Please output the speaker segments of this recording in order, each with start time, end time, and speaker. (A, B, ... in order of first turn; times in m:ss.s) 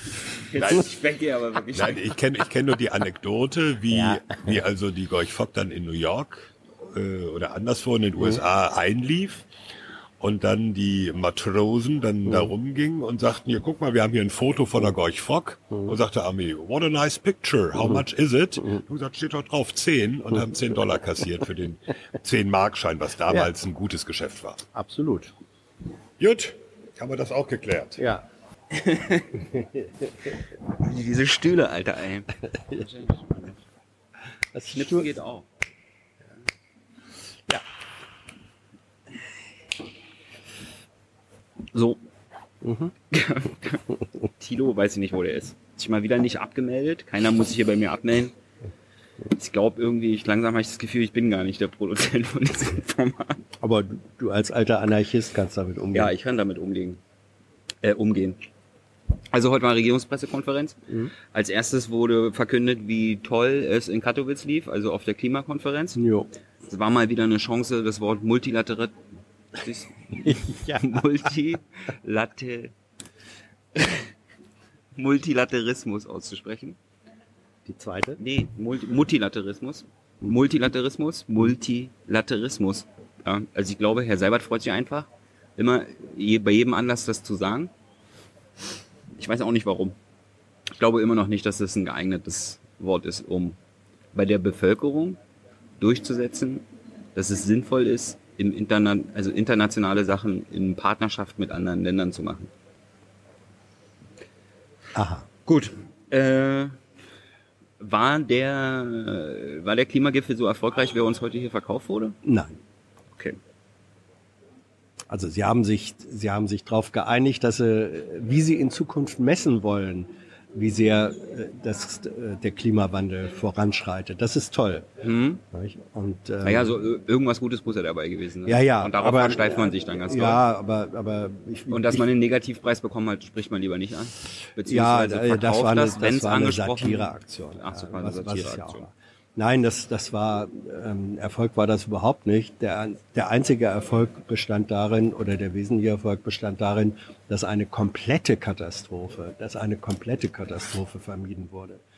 0:00.5-0:02.1 A
0:00.5-0:00.9 B
0:01.7-0:09.5 B
0:03.9-0:04.5 C
0:10.2-0:24.6 B
0:24.7-0:25.3 C
0:26.2-0:28.0 B
0:28.0-0:28.2 C
0:28.7-0:29.4 A
0:29.5-0:29.9 C
0:30.6-0:33.6 A
0:34.5-0:35.1 C
0:34.7-0:35.5 A
0:41.7-0:42.0 A
0:42.6-0:42.9 C
0:43.1-0:43.8 A
0:44.4-0:48.3 A
0:49.3-0:53.4 A
0:53.6-0:56.1 C
0:55.9-0:57.0 A
0:57.8-0:58.4 A
0:59.3-1:00.8 A
1:01.3-1:06.0 A
1:06.0-1:06.3 C
1:06.7-1:08.9 A
1:09.5-1:12.7 A
1:10.2-1:11.0 C
1:13.7-1:14.1 A
1:15.0-1:16.8 A
1:17.6-1:18.2 C
1:18.2-1:27.7 A
1:29.1-1:30.0 A
1:30.8-1:33.6 A
1:34.1-1:35.2 A
1:35.8-1:42.5 A
1:44.9-1:45.2 C
1:45.4-1:46.8 A
1:47.8-1:52.2 A
1:52.2-1:52.6 C
1:55.1-2:04.8 C
2:05.0-2:05.4 A
2:05.5-2:06.7 C
2:06.4-2:10.4 A
2:08.4-2:12.0 C
2:11.7-2:18.9 A
2:14.6-2:31.8 C